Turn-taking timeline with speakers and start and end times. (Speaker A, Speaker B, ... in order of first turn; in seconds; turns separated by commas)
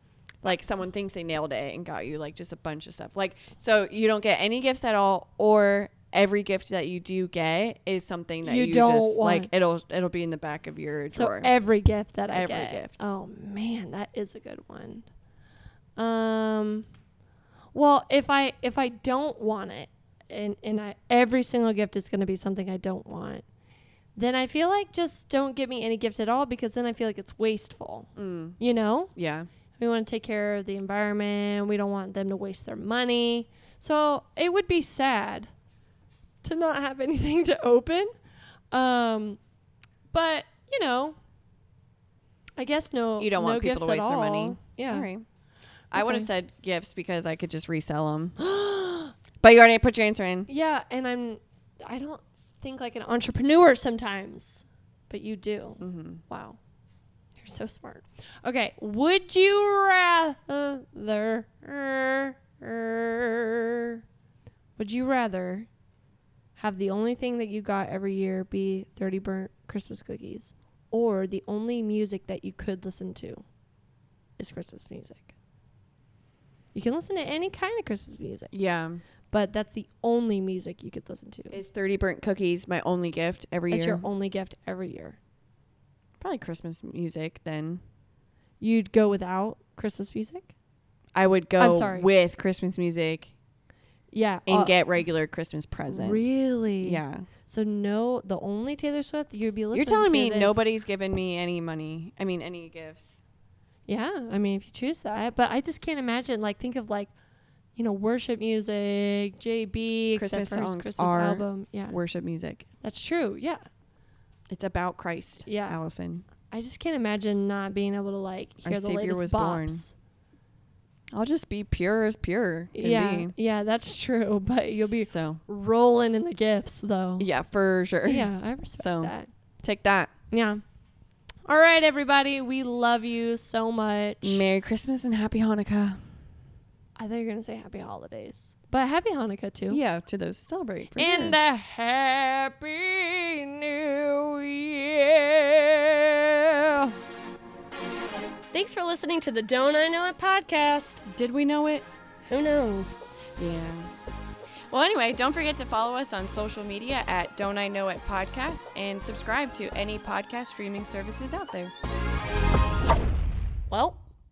Speaker A: 0.4-11.5, Speaker B: 8.4-9.5, Speaker B: 11.1-15.1, Speaker A: 12.3-13.0, Speaker B: 16.0-16.9, Speaker B: 17.7-23.4, Speaker B: 24.1-29.1, Speaker A: 28.1-28.6, Speaker A: 29.1-29.5, Speaker B: 29.8-35.5, Speaker B: 36.4-38.1, Speaker B: 38.7-39.4, Speaker B: 40.1-41.2, Speaker B: 42.6-45.1, Speaker A: 43.2-45.2, Speaker A: 45.9-48.4, Speaker B: 45.9-46.3, Speaker B: 48.4-49.1, Speaker A: 49.4-50.5, Speaker B: 50.5-56.6, Speaker A: 55.8-56.2, Speaker B: 57.4-64.0, Speaker B: 64.8-65.7, Speaker B: 66.6-73.4, Speaker B: 74.4-75.3, Speaker B: 76.7-78.5, Speaker A: 78.5-79.0, Speaker B: 79.3-81.6, Speaker A: 81.5-84.0, Speaker B: 83.7-85.2, Speaker A: 86.2-87.8, Speaker B: 88.6-90.5, Speaker A: 91.1-93.3, Speaker B: 91.6-92.1, Speaker B: 94.1-94.7, Speaker A: 94.5-97.3, Speaker B: 95.9-100.6, Speaker A: 99.7-103.2, Speaker B: 103.9-107.1, Speaker B: 107.8-112.0, Speaker A: 110.1-112.7, Speaker B: 112.8-113.7, Speaker A: 114.5-116.2, Speaker B: 115.5-115.8, Speaker B: 116.5-119.9, Speaker A: 118.6-119.8, Speaker A: 121.1-123.3, Speaker B: 122.7-127.3, Speaker A: 124.7-125.4, Speaker A: 127.2-130.1, Speaker B: 128.0-129.3, Speaker B: 130.3-130.6, Speaker B: 131.5-134.4, Speaker A: 134.2-136.2, Speaker B: 136.9-139.8, Speaker A: 139.7-141.4, Speaker B: 141.0-146.9, Speaker B: 148.5-151.1, Speaker A: 151.1-151.9, Speaker B: 152.2-153.0, Speaker A: 153.4-153.9, Speaker A: 154.7-161.7, Speaker B: 163.7-164.0